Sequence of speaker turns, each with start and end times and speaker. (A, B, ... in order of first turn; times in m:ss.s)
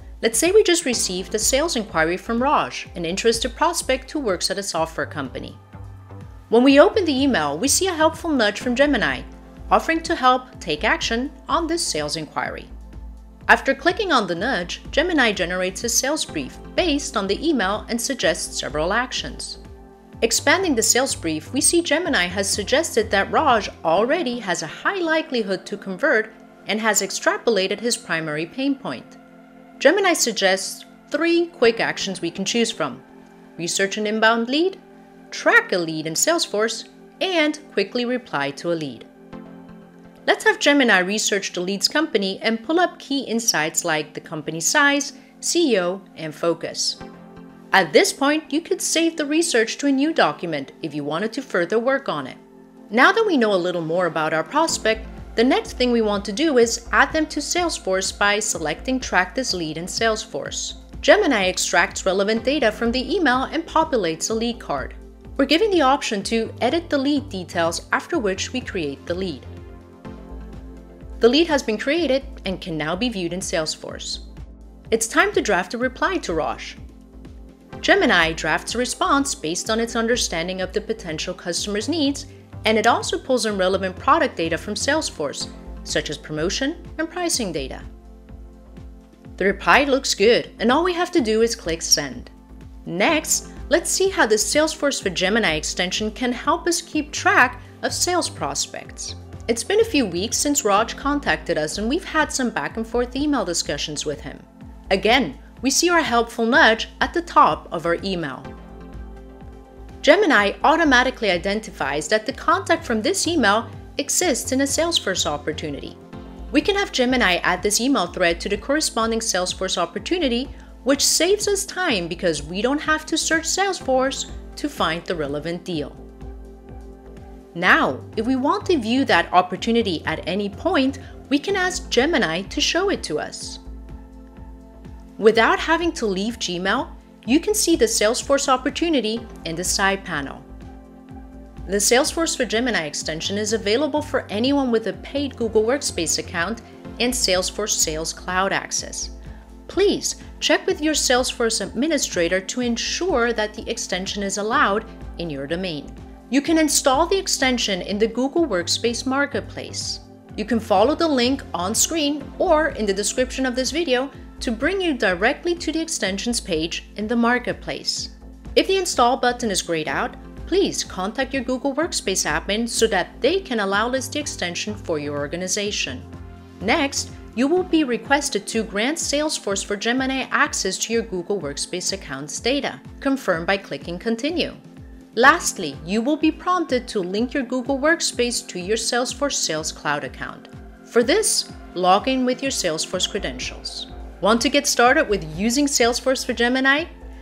0:00.2-0:05.6 A
0:06.5-0:12.7 A
0:13.5-0:19.6 A
0:20.2-0:29.2 A
0:29.8-0:33.0 A
0:33.6-0:34.8 A
0:35.3-0:39.1 A
0:40.2-0:47.0 A
0:47.7-0:52.4 A
0:52.9-1:09.5 A
1:11.2-1:14.2 A
1:14.9-1:16.8 A
1:17.8-1:27.8 A
1:29.4-1:32.3 A
1:32.8-1:48.5 A
1:50.0-1:56.0 A
1:56.5-2:06.0 A
2:07.5-2:13.6 A
2:15.2-2:20.4 A
2:21.6-2:29.1 A
2:29.7-2:56.0 A
2:56.6-3:04.6 A
3:05.1-3:16.9 A